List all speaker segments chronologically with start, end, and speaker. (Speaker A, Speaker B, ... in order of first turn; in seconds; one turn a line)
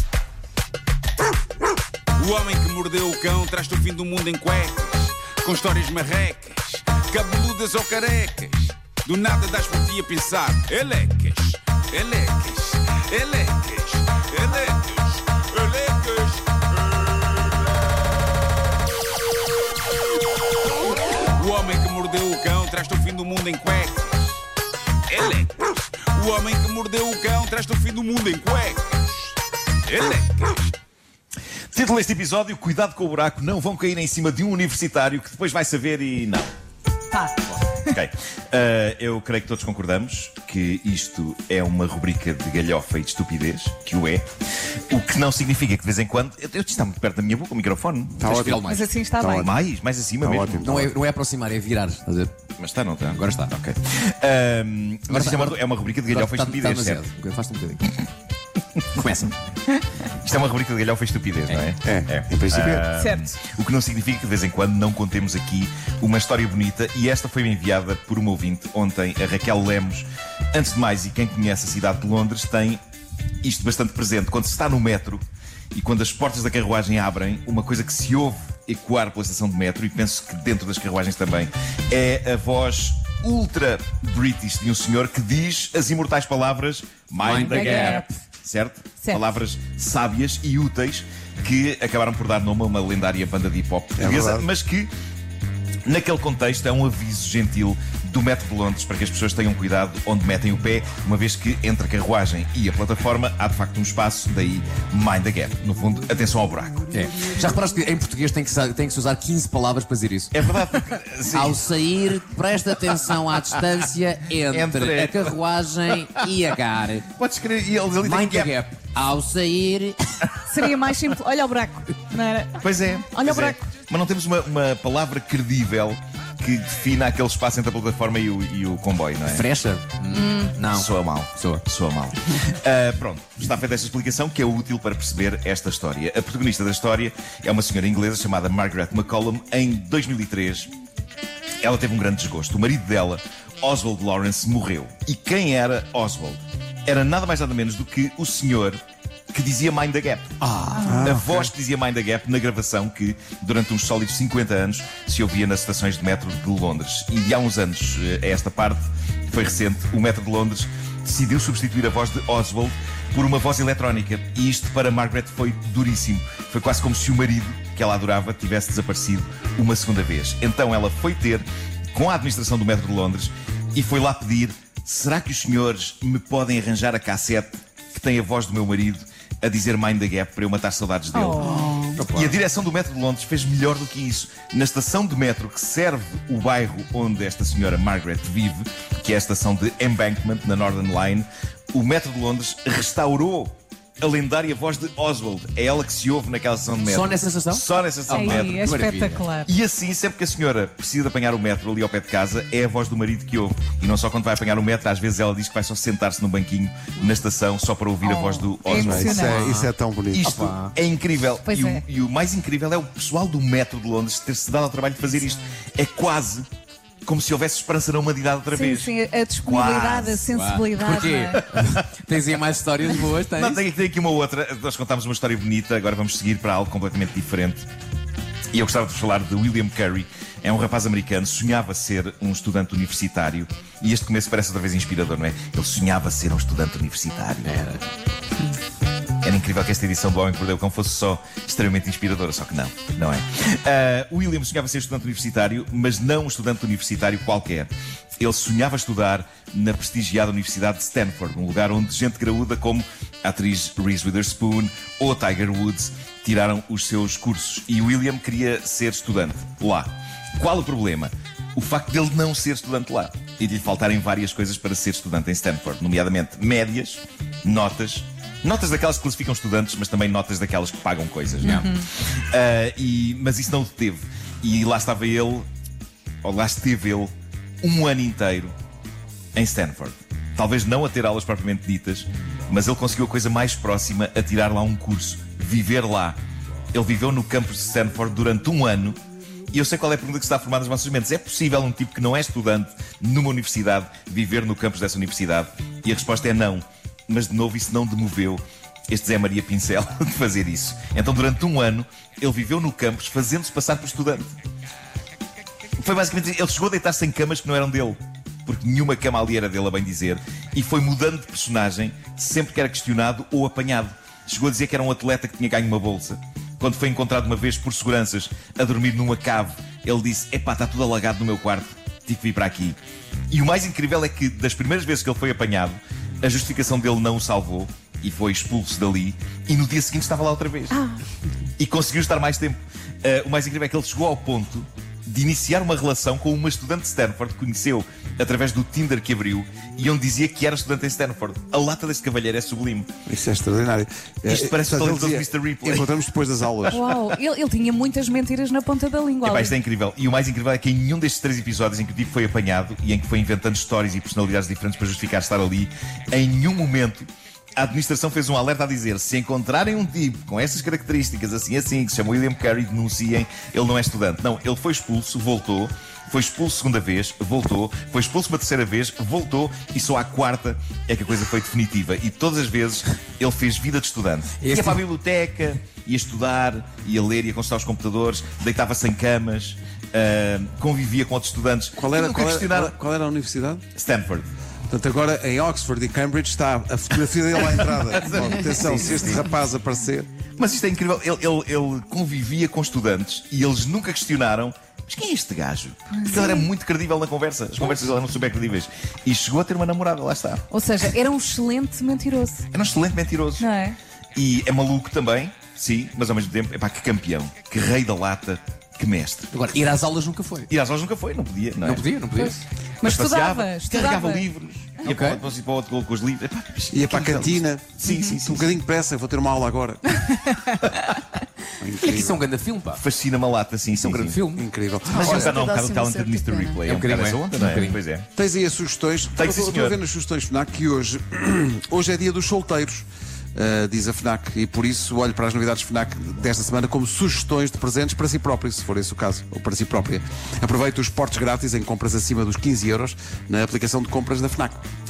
Speaker A: 2.2-17.6
Speaker A: 21.2-24.4
Speaker A: 25.1-30.8
Speaker B: 31.7-36.5
Speaker C: 37.1-37.8
Speaker B: 37.9-48.2
Speaker D: 48.2-48.6
Speaker E: 48.2-48.9
Speaker C: 48.7-49.5
Speaker D: 49.2-49.5
Speaker B: 49.4-50.9
Speaker D: 50.2-50.9
Speaker E: 50.6-52.3
Speaker B: 52.6-57.0
Speaker E: 53.1-53.5
Speaker E: 55.1-58.0
Speaker E: 58.9-59.4
Speaker B: 60.1-72.8
Speaker D: 61.8-62.9
Speaker C: 63.0-63.3
Speaker B: 73.4-94.9
Speaker E: 87.2-88.0
Speaker C: 87.3-88.1
Speaker D: 94.0-94.5
Speaker B: 95.9-106.9
Speaker E: 106.9-110.3
Speaker B: 110.3-112.1
Speaker E: 111.3-117.1
Speaker B: 114.5-116.5
Speaker B: 117.2-118.5
Speaker E: 118.0-120.3
Speaker C: 120.5-123.6
Speaker B: 122.6-129.5
Speaker E: 129.3-131.6
Speaker C: 130.1-130.6
Speaker B: 130.7-140.7
Speaker B: 141.6-148.8
Speaker B: 149.3-150.4
Speaker D: 150.6-151.5
Speaker C: 150.8-151.1
Speaker B: 151.0-198.8
Speaker C: 181.1-182.0
Speaker E: 181.5-182.3
Speaker E: 196.9-199.3
Speaker C: 198.1-199.5
Speaker B: 199.4-209.3
Speaker C: 208.0-209.4
Speaker D: 208.7-210.4
Speaker E: 209.1-209.7
Speaker B: 210.1-216.5
Speaker E: 210.3-210.7
Speaker C: 211.4-211.8
Speaker B: 217.1-218.9
Speaker C: 218.5-221.4
Speaker B: 219.4-220.4
Speaker E: 220.3-223.6
Speaker B: 221.4-221.8
Speaker B: 223.2-227.7
Speaker B: 228.5-237.8
Speaker E: 237.5-237.8
Speaker B: 239.2-275.5
Speaker C: 271.4-271.9
Speaker B: 276.2-277.1
Speaker B: 277.6-278.5
Speaker B: 279.4-286.2
Speaker B: 286.7-289.0
Speaker B: 289.5-304.3
Speaker B: 305.8-322.8
Speaker B: 323.3-330.8
Speaker C: 330.7-331.0
Speaker B: 331.6-342.9
Speaker D: 343.1-346.8
Speaker B: 344.3-345.9
Speaker C: 346.7-349.6
Speaker B: 349.2-382.8
Speaker E: 374.4-374.8
Speaker D: 381.8-383.6
Speaker B: 383.8-384.3
Speaker D: 384.7-390.1
Speaker B: 387.5-389.3
Speaker B: 390.4-400.4
Speaker C: 396.0-396.5
Speaker C: 400.5-402.4
Speaker B: 402.5-403.5
Speaker C: 403.4-403.8
Speaker B: 404.1-409.3
Speaker E: 409.3-410.5
Speaker B: 410.5-411.9
Speaker E: 411.6-412.4
Speaker C: 412.1-414.3
Speaker B: 412.8-418.5
Speaker E: 414.8-415.2
Speaker D: 416.7-420.2
Speaker C: 417.8-418.1
Speaker C: 420.3-420.8
Speaker D: 421.6-422.2
Speaker E: 421.8-422.8
Speaker B: 422.7-424.2
Speaker E: 423.8-424.5
Speaker D: 424.4-425.4
Speaker C: 424.9-426.6
Speaker B: 424.9-428.1
Speaker E: 426.6-427.8
Speaker D: 428.1-444.6
Speaker B: 429.1-429.8